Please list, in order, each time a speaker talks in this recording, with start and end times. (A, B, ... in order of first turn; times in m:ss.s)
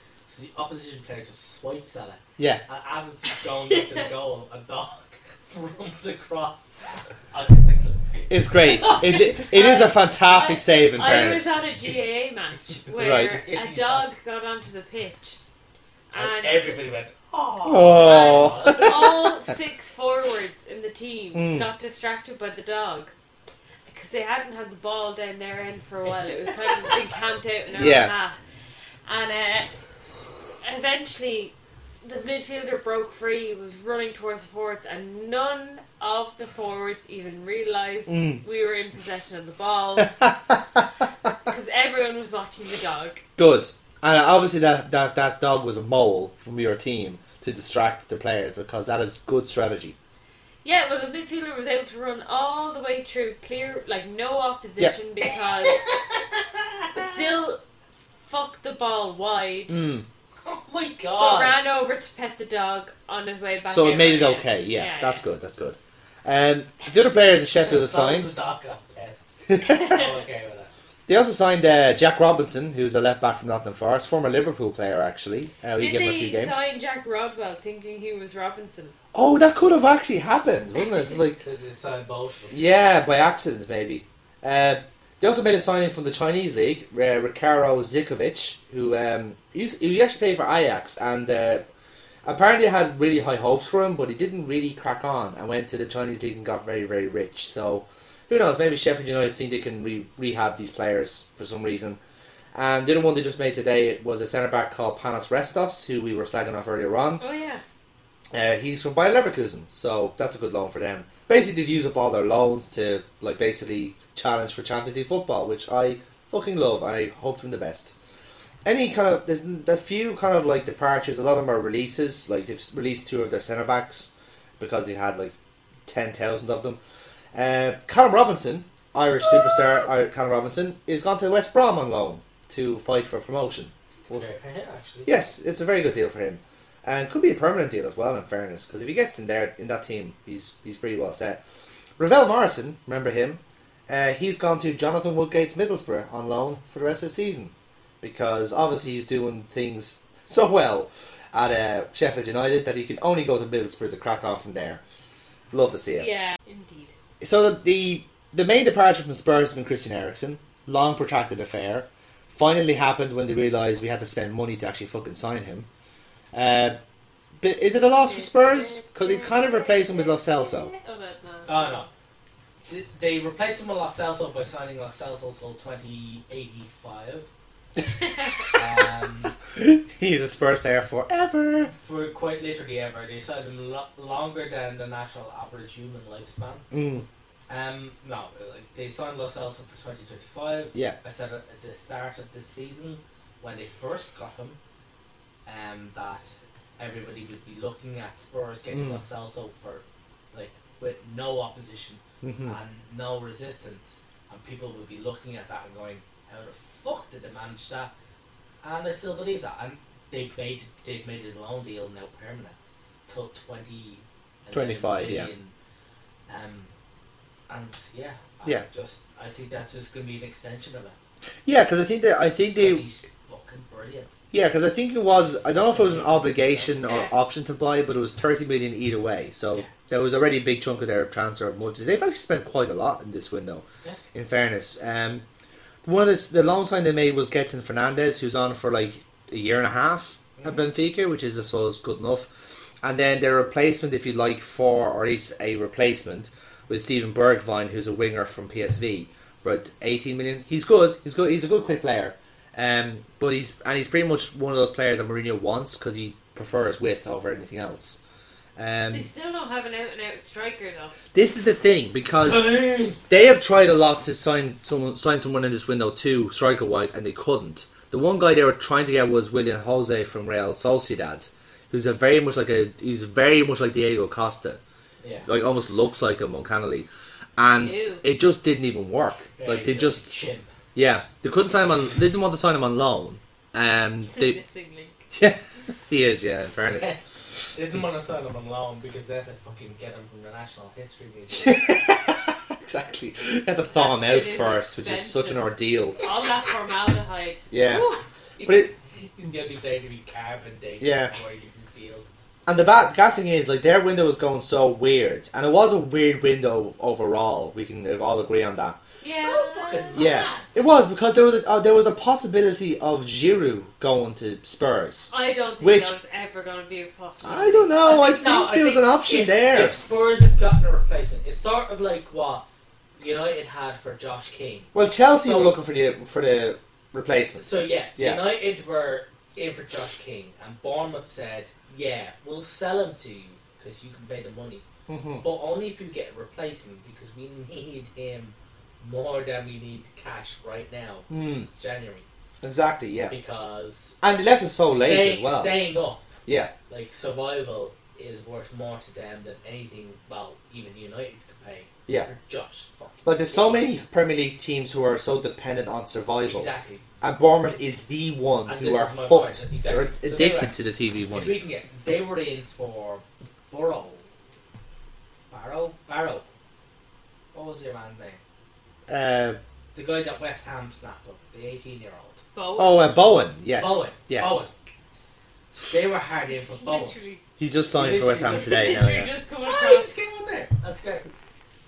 0:00.3-0:09.2 A
0:03.6-0:04.1 B
0:08.3-0:11.6 C
0:08.8-0:15.4 B
0:12.9-0:13.4 C
0:13.2-0:14.0 A
0:16.1-0:16.8 B
0:16.1-0:19.1 A
0:17.6-0:19.3 C
0:17.9-0:23.1 B
0:21.3-0:21.7 C
0:23.9-0:28.4 B
0:27.7-0:28.1 C
0:29.0-0:29.7 B
0:30.6-0:40.2 B
0:38.1-0:38.4 C
0:41.4-0:43.2 B
0:43.4-0:49.9 C
0:50.6-0:55.9 B
0:55.6-0:57.3 A
0:56.9-0:57.6 B
0:58.2-0:59.8 B
0:59.7-1:00.0 C
1:00.4-1:01.6 A
1:01.2-1:05.2 B
1:03.7-1:08.3 C
1:07.6-1:10.7 A
1:09.5-1:10.0 C
1:09.8-1:10.1 B
1:11.1-1:16.6 C
1:15.8-1:18.9 B
1:19.1-1:21.4 C
1:21.4-1:22.6 A
1:22.5-1:31.6 C
1:32.2-1:42.0 C
1:42.5-1:47.2 C
1:47.2-1:47.6 B
1:48.3-1:57.9 C
1:58.6-2:05.3 C
2:05.9-2:06.8 C
2:07.3-2:14.2 C
2:14.1-2:15.2 A
2:15.0-2:21.4 C
2:22.0-2:34.8 C
2:35.5-2:36.1 C
2:36.0-2:36.9 B
2:37.2-2:45.7 C
2:46.3-2:46.8 C
2:47.4-2:50.7 C
2:48.0-2:51.9 B
2:51.4-2:51.9 A
2:52.6-2:57.3 A
2:58.5-2:59.3 A
2:59.5-3:01.7 C
3:01.8-3:06.7 A
3:06.7-3:07.0 C
3:07.5-3:14.6 A
3:15.4-3:27.9 A
3:18.7-3:19.0 C
3:22.2-3:22.6 C
3:28.6-3:35.5 A
3:34.5-3:35.3 C
3:36.3-3:36.7 A
3:37.5-3:41.0 A
3:41.4-3:42.8 C
3:42.5-3:44.1 A
3:44.3-3:55.2 C
3:45.6-3:47.0 A
3:46.8-3:47.1 B
3:55.8-4:02.3 C
4:02.8-4:18.0 C
4:18.6-4:19.1 C
4:18.9-4:21.0 B
4:21.1-4:22.5 C
4:22.2-4:23.0 A
4:23.1-4:34.6 C
4:35.0-4:35.3 A
4:35.2-4:40.2 C
4:37.6-4:38.0 B
4:39.4-4:40.5 A
4:40.7-4:44.4 C
4:44.1-4:45.0 B
4:45.1-4:47.0 C
4:46.7-4:47.0 A
4:47.5-4:51.7 A
4:51.4-4:56.0 C
4:53.7-4:55.5 B
4:56.0-4:58.0 B
4:57.5-4:57.9 C
4:58.4-5:02.1 A
4:58.4-4:58.7 C
5:00.8-5:01.1 C
5:02.4-5:08.8 C
5:09.0-5:10.3 B
5:09.1-5:10.5 A
5:09.9-5:16.0 C
5:15.1-5:17.8 B
5:17.2-5:19.8 C
5:17.8-5:22.4 A
5:23.0-5:24.7 A
5:24.7-5:28.2 C
5:25.2-5:25.6 A
5:27.4-5:34.6 A
5:34.9-5:35.2 C
5:35.2-5:42.0 A
5:41.1-5:41.5 C
5:42.4-5:43.1 C
5:43.1-5:44.0 A
5:44.0-5:45.6 C
5:44.7-5:46.0 A
5:46.2-5:46.5 C
5:46.7-5:53.7 A
5:53.0-6:01.4 C
5:56.2-5:56.8 A
5:58.4-6:00.5 A
6:01.1-6:04.0 A
6:05.3-6:06.2 A
6:07.3-6:08.2 A
6:08.9-6:09.4 C
6:09.7-6:12.2 A
6:12.3-6:12.9 B
6:12.6-6:14.5 C
6:13.6-6:14.5 A
6:15.5-6:17.0 A
6:16.4-6:17.2 B
6:17.4-6:19.1 C
6:17.7-6:18.9 A
6:18.3-6:19.9 B
6:19.4-6:21.1 A